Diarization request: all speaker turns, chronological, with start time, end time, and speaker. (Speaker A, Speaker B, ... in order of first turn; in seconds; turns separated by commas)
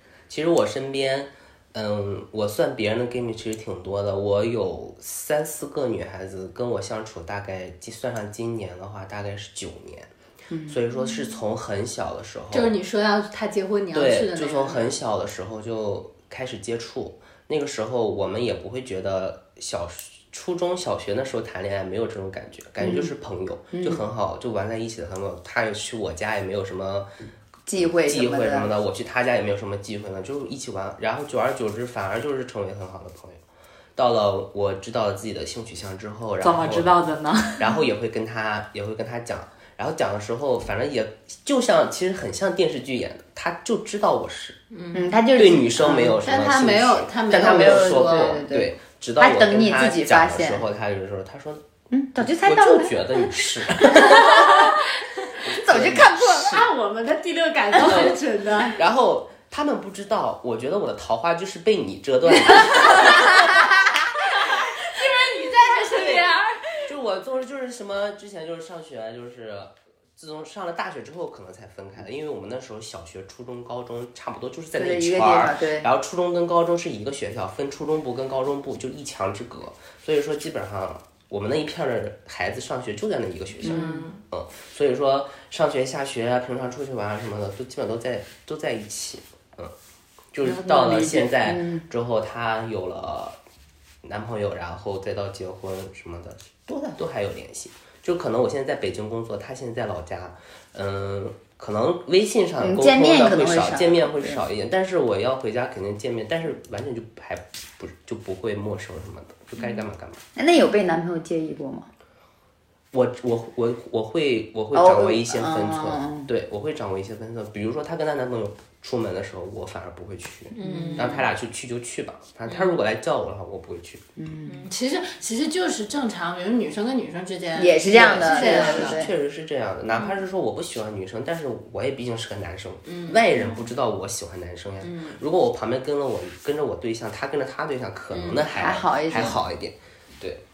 Speaker A: 0.3-10.1, Speaker B: 10.5-10.8, Speaker A: 10.7-12.7, Speaker C: 12.5-15.0, Speaker A: 13.9-27.1, Speaker B: 22.8-23.1, Speaker B: 23.7-24.0, Speaker B: 27.7-28.7, Speaker A: 27.9-33.4, Speaker A: 34.0-36.9, Speaker D: 36.4-37.7, Speaker A: 37.6-44.6, Speaker C: 44.7-45.1, Speaker B: 44.9-46.2, Speaker A: 45.3-51.6, Speaker C: 46.2-48.4, Speaker B: 47.3-50.6, Speaker B: 51.9-53.2, Speaker A: 52.2-54.7, Speaker B: 53.9-54.7, Speaker A: 55.4-56.2, Speaker B: 55.5-56.6, Speaker C: 56.2-58.8, Speaker A: 57.9-63.7, Speaker C: 64.9-66.5, Speaker A: 65.9-66.3, Speaker A: 66.8-89.7, Speaker B: 74.7-75.9, Speaker C: 83.6-84.2, Speaker B: 83.6-84.0, Speaker A: 90.3-93.4, Speaker D: 90.4-91.3, Speaker B: 91.4-91.8, Speaker A: 94.0-110.2, Speaker B: 102.6-104.4, Speaker B: 110.3-111.9, Speaker A: 112.9-124.0, Speaker B: 114.7-116.3, Speaker C: 120.6-121.2, Speaker B: 120.6-121.2, Speaker C: 122.5-122.8, Speaker B: 124.2-124.7, Speaker C: 124.5-129.0, Speaker B: 127.5-129.1, Speaker A: 128.1-140.4, Speaker C: 132.8-133.2, Speaker C: 134.8-135.2, Speaker B: 138.2-139.4